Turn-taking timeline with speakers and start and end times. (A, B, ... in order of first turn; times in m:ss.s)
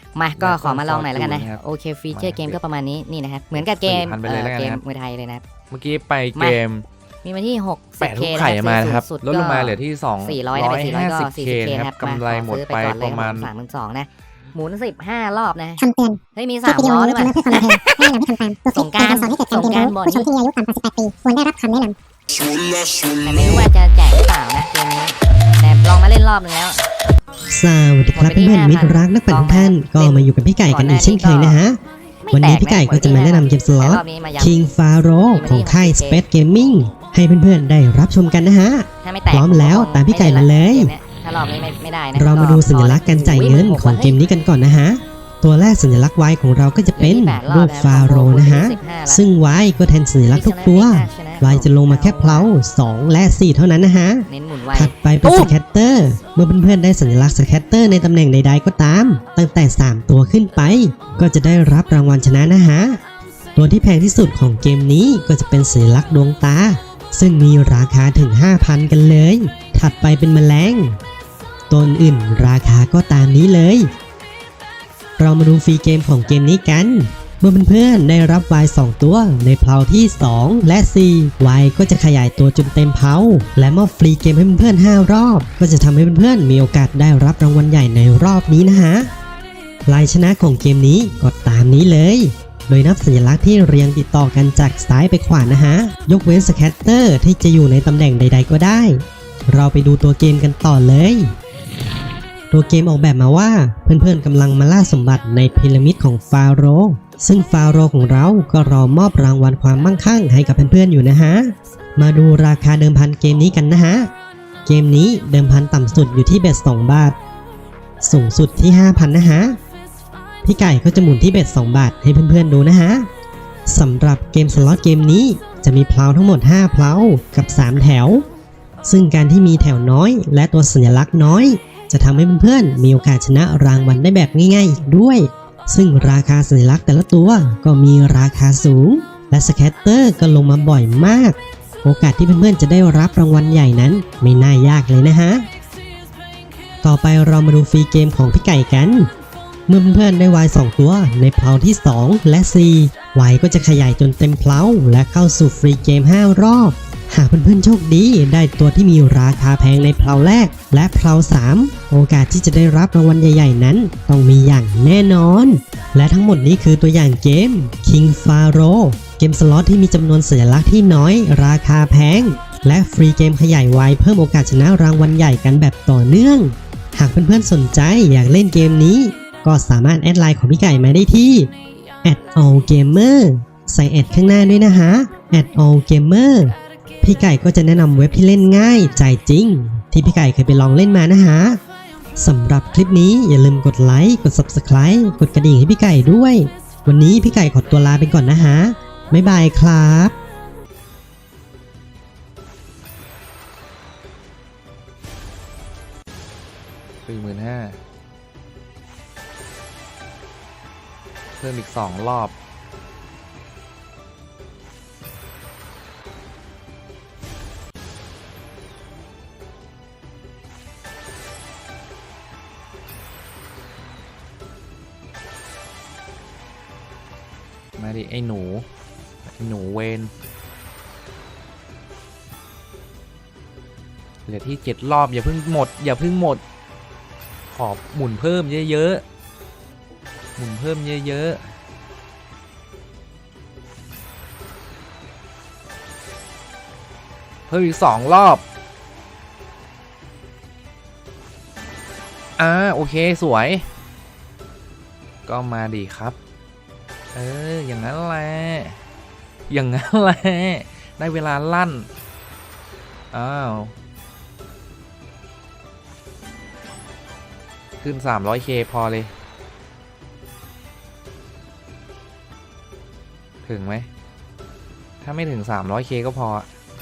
0:00.1-0:05.4 A
0:00.4-0:02.6 B
0:03.5-0:04.8 B
0:05.7-0:06.8 B
0:07.2-0:17.8 A
0:08.0-0:13.5 B
0:15.8-0:22.0 C
0:18.7-0:20.3 A
0:22.8-0:23.1 C
0:23.2-0:26.8 A
0:27.5-0:31.8 D
0:28.1-0:31.6 A
0:32.2-0:34.6 A
0:32.3-0:40.9 D
0:35.3-0:36.2 A
0:39.0-0:44.2 A
0:42.1-1:03.0 D
0:47.0-0:49.2 A
0:50.3-0:52.5 A
0:54.3-0:55.5 A
1:03.6-1:11.0 D
1:11.7-1:13.9 D
1:15.2-1:29.1 D
1:29.8-1:41.3 D
1:42.5-1:54.1 D
1:54.6-1:57.2 D
1:58.0-1:59.6 D
2:00.4-2:03.1 D
2:03.7-2:08.2 D
2:08.8-2:25.4 D
2:26.8-2:29.1 D
2:29.7-3:01.5 D
3:02.0-3:11.6 D
3:12.2-3:20.2 D
3:27.0-3:27.8 B
3:31.4-3:32.3 B
3:47.8-3:48.6 B
3:49.3-3:50.1 B
3:54.3-3:56.4 B
3:57.5-3:59.0 B
4:00.4-4:01.4 B
4:07.5-4:08.4 B
4:12.4-4:13.7 B
4:15.3-4:16.2 B
4:17.1-4:18.8 B
4:19.5-4:21.9 B
4:23.1-4:23.7 B
4:27.8-4:29.1 B
4:33.4-4:33.9 B
4:35.0-4:36.5 B